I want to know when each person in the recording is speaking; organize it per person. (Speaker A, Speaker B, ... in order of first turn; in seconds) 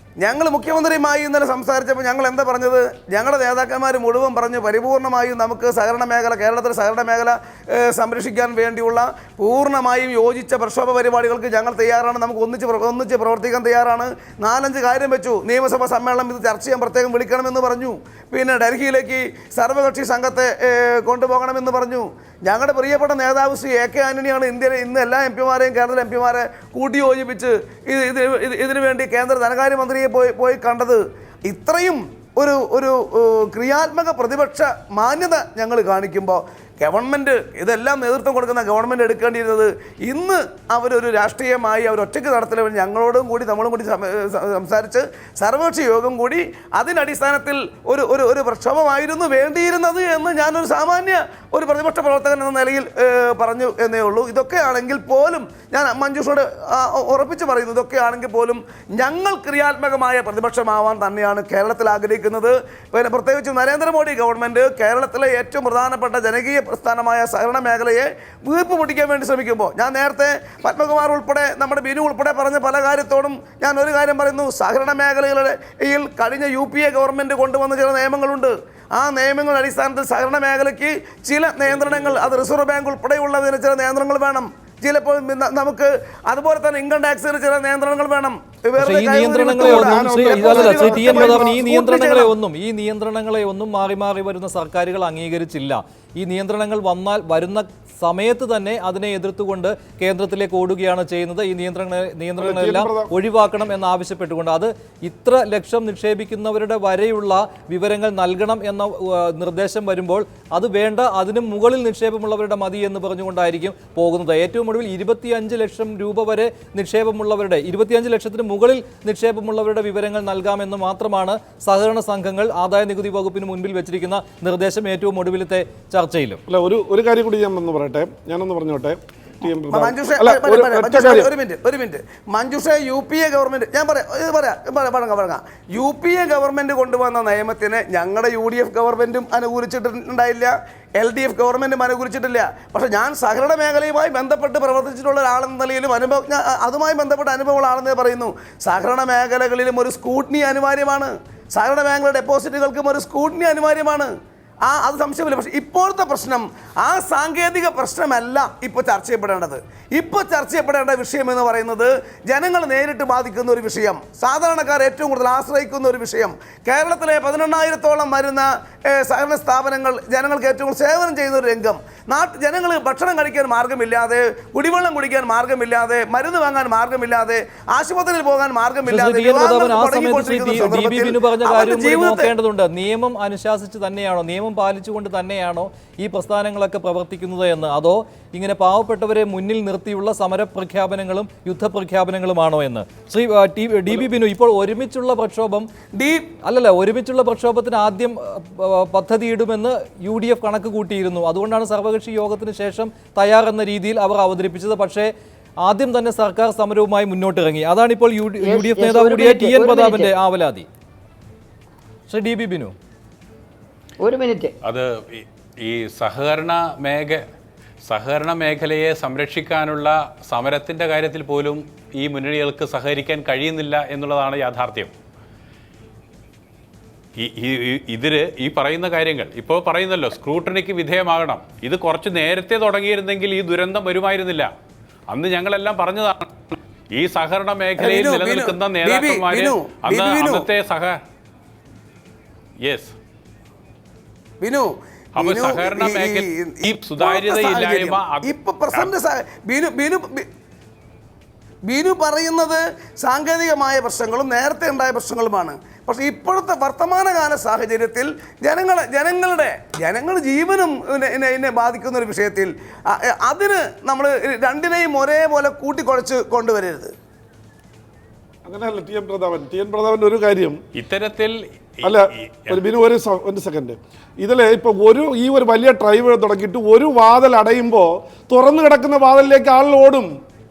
Speaker A: 0.2-92.3, 129.7-154.1, 154.7-182.3, 195.9-196.3, 237.8-240.5, 244.4-250.3, 251.7-266.9
Speaker B: 88.8-126.4, 178.9-195.7, 196.5-205.1, 205.7-210.7, 212.1-212.8
Speaker C: 89.5-91.9, 102.4-103.1, 126.5-131.3, 268.4-270.6, 271.8-280.1
Speaker D: 208.4-210.1, 214.0-214.5
Speaker E: 214.7-217.2, 217.9-224.9, 227.2-234.5, 235.1-236.3, 236.9-241.0, 242.7-242.9, 245.2-248.9, 270.8-272.6